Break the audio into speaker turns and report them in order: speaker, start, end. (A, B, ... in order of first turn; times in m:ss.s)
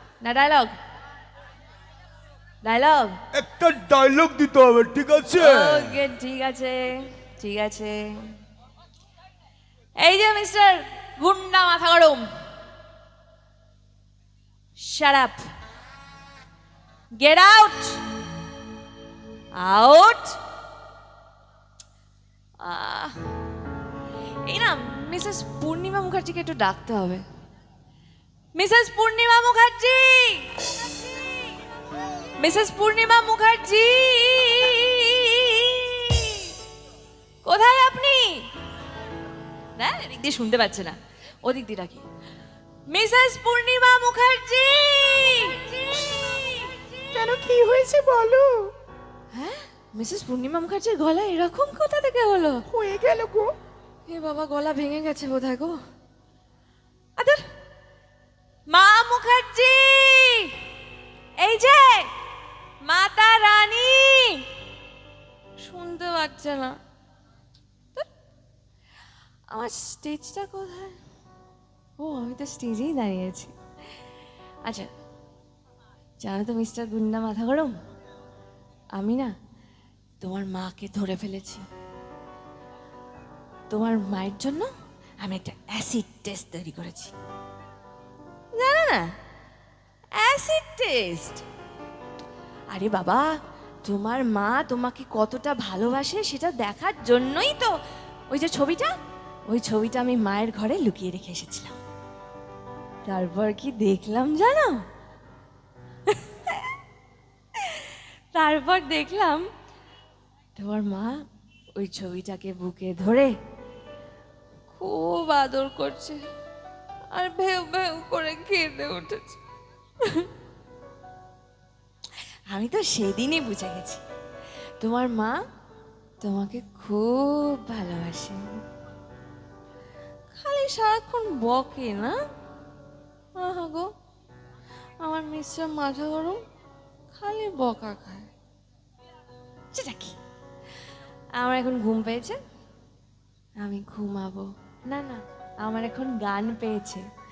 0:00.2-0:00.7 A
0:02.6-0:03.1 A
0:03.3-0:06.0 B
0:05.4-0:08.3 A
0:10.0-0:12.3 A
0:14.8-0:15.4 A
0:17.2-0:18.0 A
0:19.5-0:20.4 A
0:22.6-0:23.2 A
0:24.4-0:27.2 A
0:28.5-0:31.5 A
0:32.4-0:36.5 A
0:37.4-0:38.4 A
0:39.8-0:42.0 A
0:42.9-0:47.0 A
0:47.1-0:48.7 C
0:49.3-0:52.6 A
0:52.7-0:53.5 C
0:54.1-0:55.8 A
0:57.2-0:57.4 A
0:58.7-1:00.6 A
1:01.4-1:02.1 A
1:02.8-1:04.4 A
1:05.6-1:06.8 A
1:09.5-1:11.0 A
1:12.0-1:13.5 A
1:16.2-1:17.7 A
1:19.0-1:19.3 A
1:20.2-1:21.6 A
1:23.7-1:24.7 A
1:25.2-1:27.1 A
1:28.6-1:29.1 A
1:30.2-1:31.4 A
1:32.7-1:33.3 A
1:33.8-1:37.7 A
1:38.3-1:38.9 A
1:39.5-1:41.8 A
1:43.0-1:44.8 A
1:46.1-1:46.7 A
1:47.6-1:49.4 A
1:50.6-1:51.2 A
1:51.8-1:53.3 A
1:54.7-1:56.2 A
1:57.1-1:59.4 A
2:00.0-2:00.3 A
2:02.5-2:04.0 A
2:04.8-2:05.4 A
2:06.2-2:08.5 A
2:10.3-2:12.2 A
2:13.4-2:13.9 A
2:15.0-2:16.4 A
2:17.1-2:18.3 A
2:19.7-2:20.2 A
2:21.4-2:22.4 A
2:23.6-2:27.0 A